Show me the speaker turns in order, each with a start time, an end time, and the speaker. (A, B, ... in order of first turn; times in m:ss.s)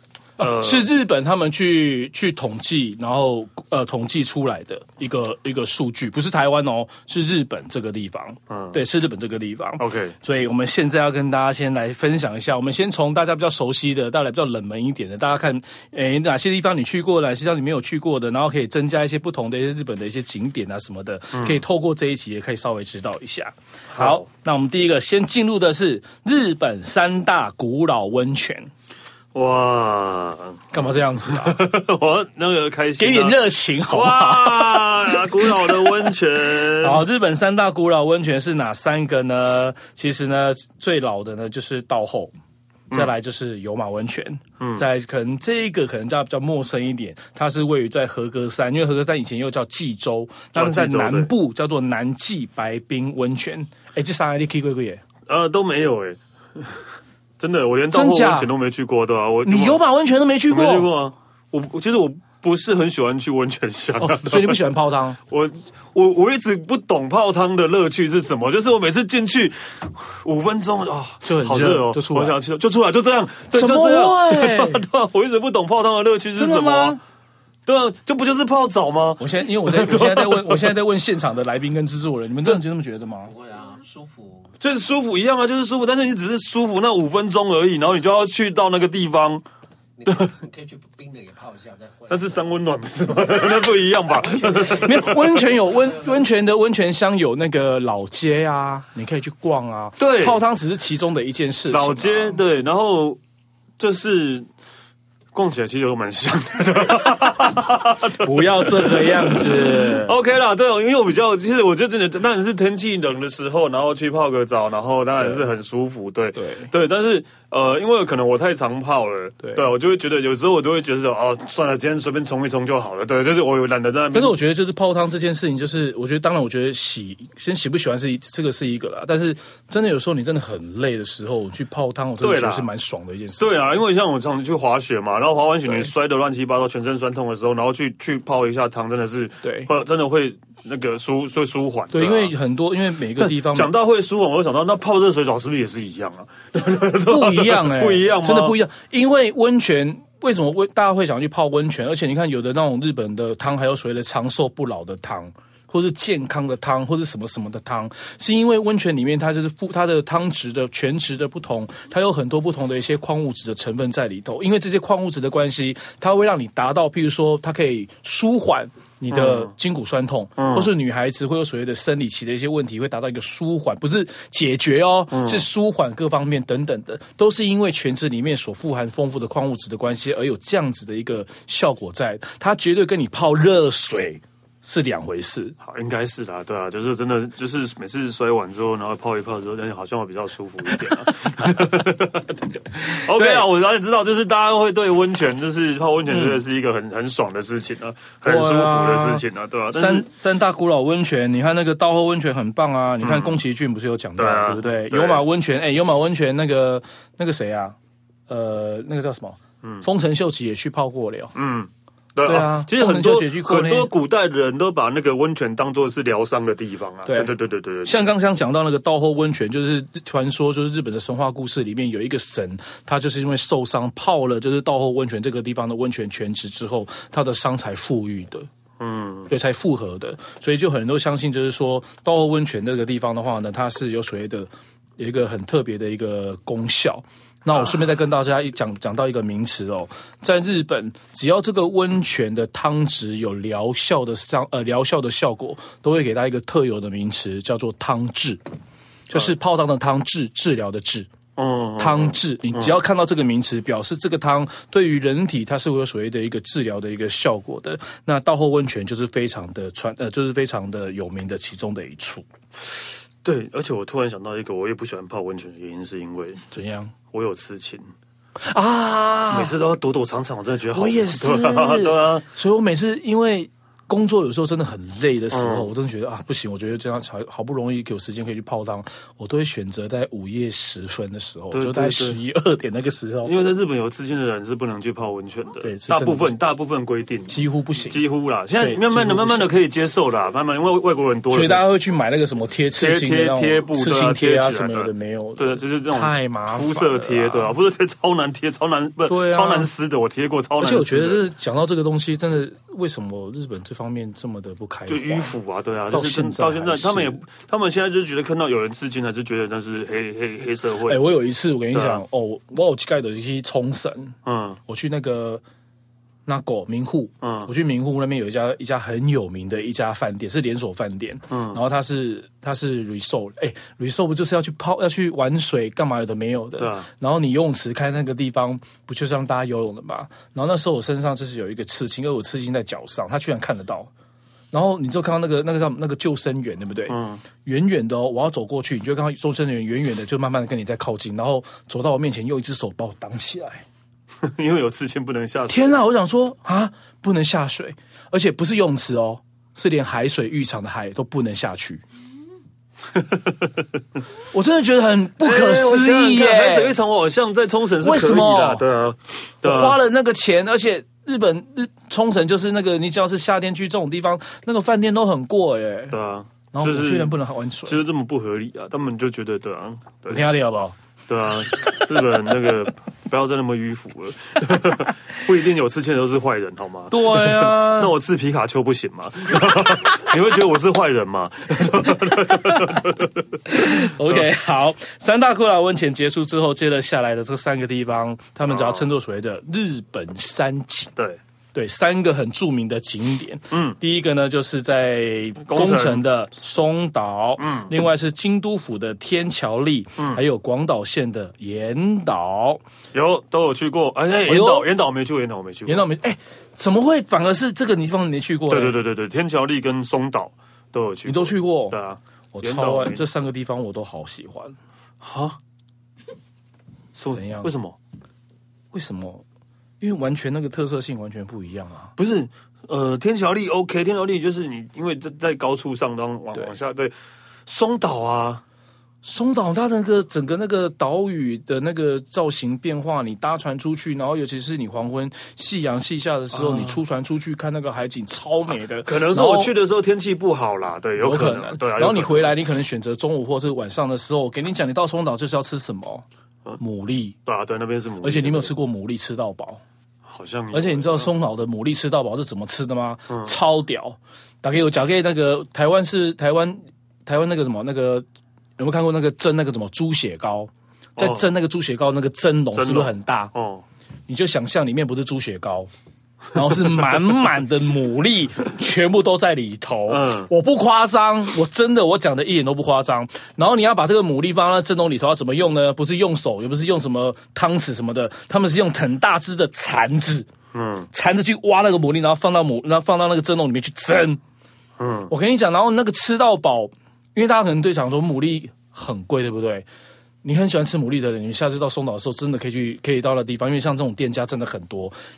0:00.4-0:28.7 A
0:00.4-0:00.9 B
0:08.5-0:08.8 B
0:09.8-0:10.2 B
0:21.3-0:21.6 B
0:23.9-0:24.2 B
0:29.3-0:37.0 B
0:30.7-0:31.6 A
0:33.0-0:42.3 A
0:42.9-0:55.0 A
0:44.6-0:44.9 B
0:50.5-0:51.3 B
0:55.3-0:56.8 B
0:57.4-0:59.8 B
0:57.9-0:58.5 A
0:59.4-1:00.9 A
1:00.5-1:04.6 B
1:04.0-1:05.2 A
1:05.3-1:17.0 B
1:11.2-1:12.4 A
1:13.5-1:14.8 A
1:16.4-1:17.0 A
1:17.7-1:20.7 B
1:19.2-1:23.3 A
1:23.2-1:24.5 C
1:24.6-1:29.4 B
1:30.0-1:32.6 C
1:30.1-1:30.3 B
1:32.1-1:35.4 B
1:34.1-1:36.2 C
1:34.5-1:42.4 A
1:40.0-1:40.4 B
1:41.7-1:43.2 B
1:43.8-1:44.5 B
1:45.3-2:04.4 B
1:48.2-1:50.2 A
1:55.2-1:55.4 A
1:56.4-1:56.7 A
2:04.1-2:13.7 A
2:12.2-2:12.7 B
2:13.4-2:22.3 B
2:19.4-2:19.7 A
2:21.9-2:23.7 A
2:23.2-2:28.6 B
2:27.0-3:05.6 A
2:49.1-2:49.5 B
2:50.4-2:50.7 B
2:55.1-2:55.5 B
3:05.6-3:20.1 B
3:10.8-3:11.7 A
3:12.9-3:13.5 A
3:16.1-3:16.4 A
3:18.2-3:27.8 A
3:23.0-3:23.4 B
3:24.2-3:25.2 B
3:28.3-3:31.3 A
3:31.3-3:38.1 B
3:32.3-3:33.9 A
3:37.1-3:37.3 A
3:37.9-3:48.5 A
3:48.8-3:49.3 B
3:49.3-4:08.4 A
4:09.1-4:11.1 A
4:11.4-4:12.8 B
4:11.8-4:22.2 A
4:23.2-4:26.4 B
4:26.5-4:26.9 A
4:27.1-4:27.9 B
4:28.4-4:29.6 A
4:29.3-4:32.3 B
4:30.7-4:43.3 A
4:35.3-4:35.7 B
4:41.5-4:42.2 B
4:43.2-4:51.6 B
4:45.6-4:46.4 A
4:47.3-4:48.0 A
4:48.6-4:49.5 A
4:51.3-4:57.5 A
4:52.8-5:01.3 B
4:59.1-4:59.7 A
5:00.6-5:05.3 A
5:04.9-5:11.0 B
5:05.9-5:07.2 A
5:10.9-5:15.4 A
5:11.7-5:12.0 B
5:14.2-5:14.6 B
5:16.3-5:33.9 A
5:17.2-5:17.5 B
5:21.3-5:21.6 B
5:26.6-5:26.9 B
5:34.5-5:43.6 A
5:36.9-5:37.2 B
5:44.2-5:45.8 B
5:45.5-5:51.8 A
5:52.9-5:53.7 B
5:54.3-5:56.7 A
5:55.2-5:59.8 B
5:57.8-5:58.6 A
5:59.4-6:06.0 A
6:05.9-6:07.2 B
6:06.5-6:07.8 A
6:07.7-6:10.3 B
6:10.1-6:10.8 A
6:11.1-6:24.3 B
6:16.9-6:17.9 A
6:23.5-6:30.9 A
6:28.5-6:28.9 B
6:31.5-6:42.6 A
6:33.5-6:33.8 B
6:35.5-6:36.0 B
6:37.4-6:37.7 B
6:42.9-6:45.9 B
6:44.3-6:44.7 A
6:45.7-6:48.8 A
6:48.5-6:53.0 B
6:51.1-6:51.8 A
6:52.3-6:54.6 A
6:55.0-6:55.4 B
6:57.0-6:57.8 B
6:57.1-6:57.5 A
6:58.7-6:59.2 A
6:59.8-7:01.9 A
7:02.0-7:06.9 B
7:07.5-7:08.4 B
7:09.0-7:19.5 A
7:16.3-7:16.8 B
7:18.8-7:22.4 B
7:21.0-7:26.0 A
7:26.6-7:27.2 A
7:27.2-7:28.5 B
7:28.0-7:29.6 A
7:30.1-7:31.1 B
7:30.5-7:38.1 A
7:33.1-7:33.4 B
7:38.6-7:43.3 A
7:41.0-7:41.3 B
7:42.5-7:43.7 B
7:44.1-7:45.7 A
7:46.3-8:00.3 A
7:49.9-7:50.3 B
8:00.5-8:00.9 B
8:00.9-8:04.2 A
8:04.8-8:05.1 B
8:05.1-8:09.7 A
8:10.2-8:14.9 A